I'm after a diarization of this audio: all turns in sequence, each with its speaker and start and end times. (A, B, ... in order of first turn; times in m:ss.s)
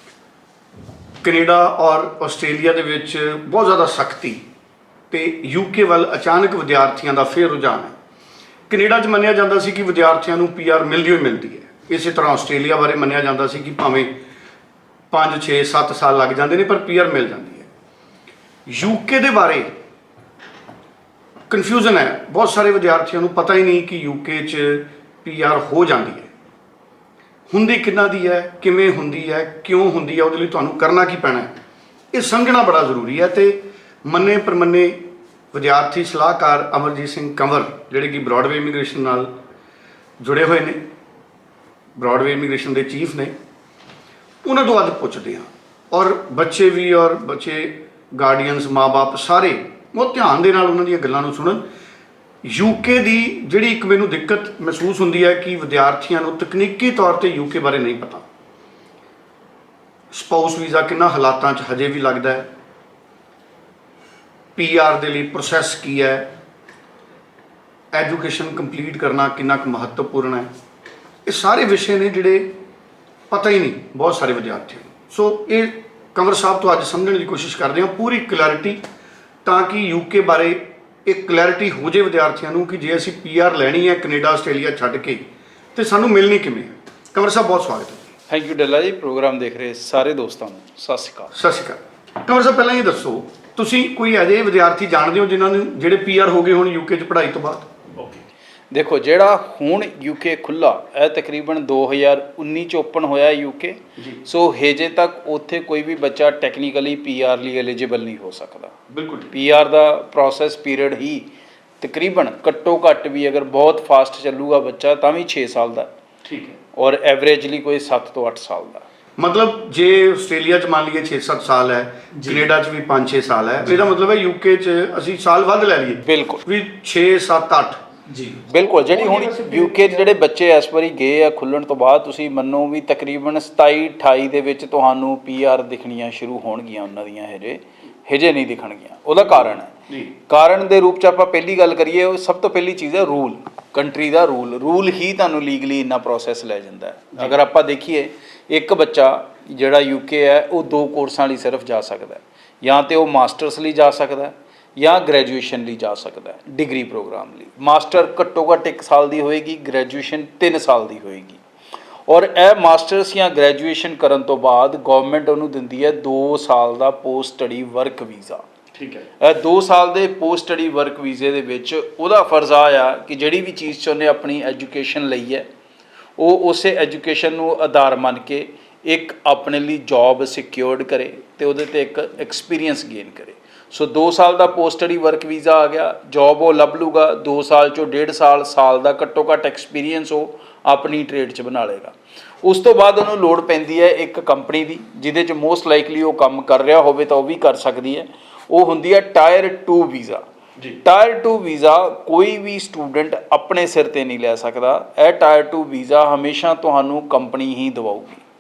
0:01.2-0:04.4 A
0:05.1-0:07.9 A
0:08.7-0:14.1 A
0:15.1-0:17.7 A
0:18.7-0:19.7 A
0:21.5-0:26.3 A
0:27.5-0:31.5 A
0:32.1-0:35.0 A
0:35.5-0:39.3 A
0:40.2-0:40.8 A
0:42.0-0:43.3 A
0:44.4-0:51.6 A
0:52.4-0:58.2 A
1:00.1-1:02.5 A
1:04.6-1:06.3 A
1:07.9-1:10.5 A
1:11.2-1:12.5 A
1:13.3-1:18.8 A
1:19.4-1:28.1 A
1:28.3-1:31.3 B
1:31.4-1:37.7 A
1:38.7-1:48.8 B
1:48.9-1:49.3 A
1:49.3-1:51.3 B
1:51.8-1:55.9 B
1:56.2-1:56.6 A
1:56.7-1:58.8 B
1:59.2-2:07.8 A
2:06.0-2:06.4 B
2:08.4-2:41.4 B
2:08.8-2:10.1 A
2:42.1-2:48.4 B
2:48.8-2:49.0 A
2:49.2-2:55.5 B
2:56.2-3:20.2 B
3:20.7-3:28.2 B